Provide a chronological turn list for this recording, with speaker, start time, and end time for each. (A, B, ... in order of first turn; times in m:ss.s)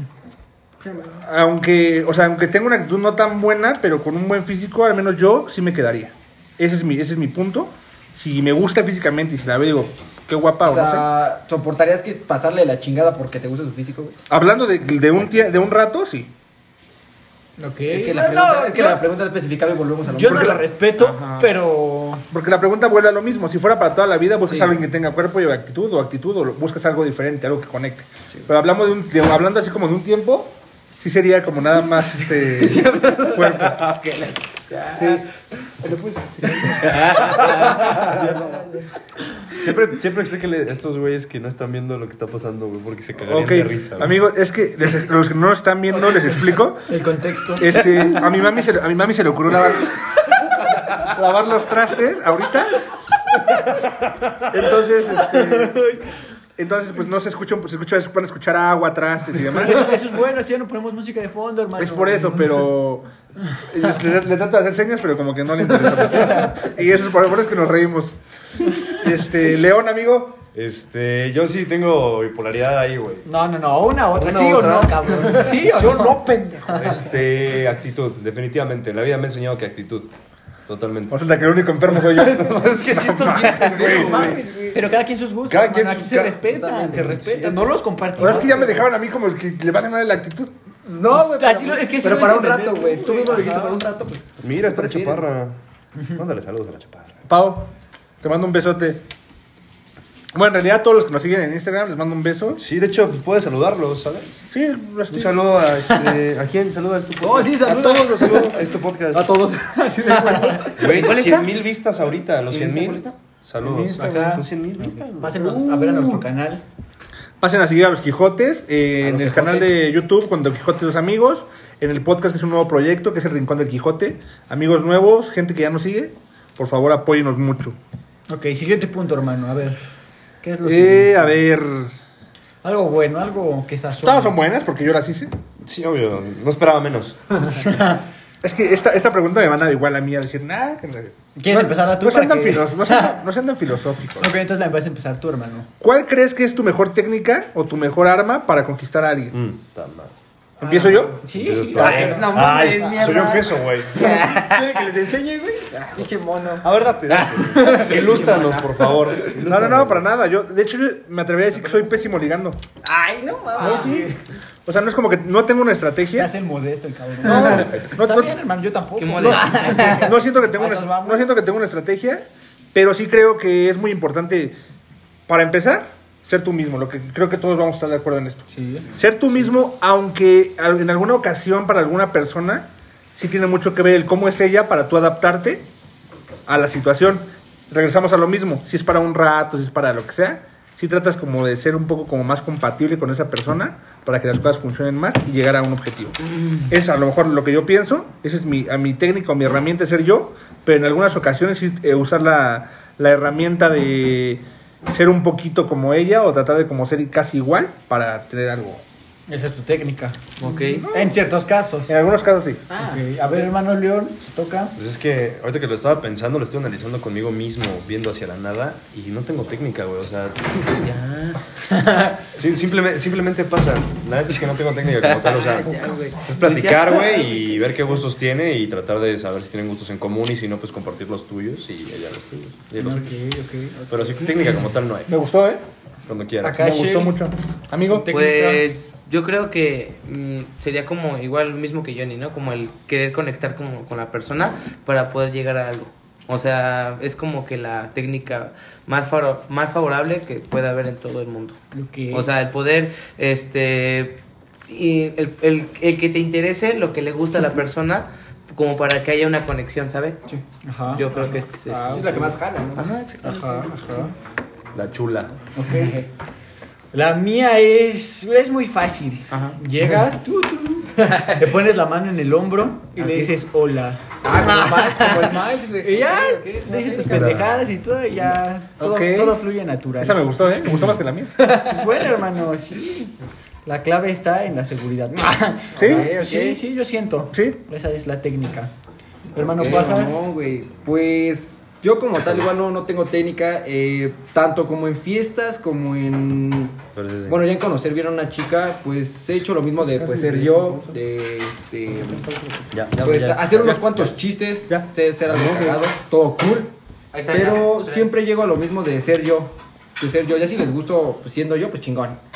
0:00.8-0:01.2 A
0:01.2-0:11.1 B
0:10.6-0:14.2 A
0:14.3-0:16.3 B
0:17.6-0:19.0 C
0:17.9-0:20.6 A
0:20.1-0:22.2 C
0:21.0-0:21.5 D
0:22.3-0:33.9 B
0:32.5-0:33.9 A
0:34.0-0:34.8 D
0:34.9-0:35.2 B
0:35.8-0:37.0 B
0:36.4-0:38.8 A
0:36.9-0:37.5 D
0:37.2-0:38.3 E
0:37.7-0:38.1 C
0:39.5-0:44.2 E
0:43.2-0:46.9 B
0:46.9-0:48.2 C
0:47.6-0:50.0 B
0:50.9-0:52.8 B
0:54.5-0:55.9 B
0:56.6-1:00.0 B
0:59.5-1:02.6 C
1:01.8-1:10.4 B
1:10.5-1:13.3 E
1:13.2-1:16.3 C
1:14.1-1:20.1 E
1:20.7-1:21.2 E
1:21.1-1:24.1 B
1:21.9-1:24.5 E
1:23.5-1:24.9 A
1:24.7-1:28.9 C
1:25.4-1:26.4 E
1:26.4-1:27.7 A
1:28.2-1:30.5 B
1:30.8-1:35.2 A
1:31.1-1:33.8 C
1:34.4-1:35.6 E
1:36.1-1:37.2 E
1:37.3-1:37.7 B
1:38.2-1:39.0 B
1:40.3-1:42.6 B
1:42.6-1:44.5 E
1:44.5-1:45.4 B
1:45.1-1:49.4 E
1:47.2-1:51.1 A
1:47.5-1:48.3 C
1:47.6-1:48.5 B
1:49.8-1:50.8 C
1:50.8-1:55.5 E
1:50.8-1:51.5 D
1:52.5-1:53.0 D
1:53.6-1:54.4 B
1:53.9-1:54.5 C
1:55.0-1:56.6 C
1:55.7-1:56.2 A
1:57.4-2:07.8 B
1:59.0-1:59.7 A
2:08.3-2:09.8 C
2:10.4-2:11.3 C
2:10.6-2:11.9 B
2:12.6-2:14.4 C
2:14.0-2:15.3 B
2:15.6-2:17.7 E
2:18.4-2:24.3 B
2:21.4-2:23.2 C
2:24.2-2:25.7 C
2:25.8-2:29.3 B
2:29.3-2:30.1 E
2:30.6-2:31.2 B
2:30.6-2:31.1 A
2:30.6-2:32.7 C
2:31.3-2:34.1 E
2:31.7-2:36.7 A
2:31.8-2:32.1 B
2:34.0-2:34.8 D
2:36.6-2:40.0 E
2:37.5-2:37.8 D
2:37.5-2:38.9 A
2:39.4-2:42.6 B
2:42.8-2:44.2 A
2:43.6-2:44.0 C
2:43.6-2:44.1 B
2:44.6-2:46.3 B
2:46.1-2:51.2 C
2:47.2-2:48.4 B
2:47.3-2:47.9 E
2:49.0-2:50.1 D
2:49.7-2:54.6 B
2:55.3-3:05.6 B
2:58.5-2:58.9 C
3:06.5-3:16.2 B
3:16.7-3:28.8 B
3:29.3-3:30.3 C
3:30.4-3:30.9 D
3:30.7-3:31.2 B
3:30.8-3:31.9 C
3:31.9-3:32.6 B
3:32.7-3:33.0 A
3:32.7-3:34.8 C
3:34.8-3:40.7 E
3:40.8-3:41.4 D
3:41.7-3:42.2 C
3:42.3-3:53.2 E
3:45.0-3:47.2 D
3:52.8-3:54.3 C
3:53.9-3:55.1 E
3:55.1-3:55.6 B
3:56.1-3:56.6 E
3:56.4-3:57.2 C
3:56.5-3:58.1 B
3:57.8-3:58.6 C
3:58.1-4:11.6 D
4:11.7-4:12.3 C
4:12.1-4:20.2 D
4:20.6-4:22.4 C
4:20.9-4:23.7 D
4:21.9-4:22.9 A
4:23.2-4:24.1 C
4:24.7-4:25.3 E
4:25.5-4:26.0 C
4:25.7-4:26.0 A
4:26.9-4:40.8 C
4:29.3-4:29.6 D
4:31.0-4:31.3 A
4:33.0-4:33.3 A
4:34.2-4:37.4 A
4:37.1-4:37.5 E
4:38.8-4:39.4 B
4:40.0-4:41.5 B
4:41.4-4:43.1 C
4:43.6-4:48.7 C
4:45.7-4:46.6 A
4:45.8-4:46.1 B
4:47.3-4:47.6 B
4:49.3-4:50.2 C
4:49.4-5:02.3 A
4:56.9-4:57.5 E
4:59.8-5:00.9 B
5:02.7-5:04.2 E
5:03.0-5:06.7 A
5:04.7-5:05.8 E
5:07.1-5:08.1 D
5:07.3-5:12.2 A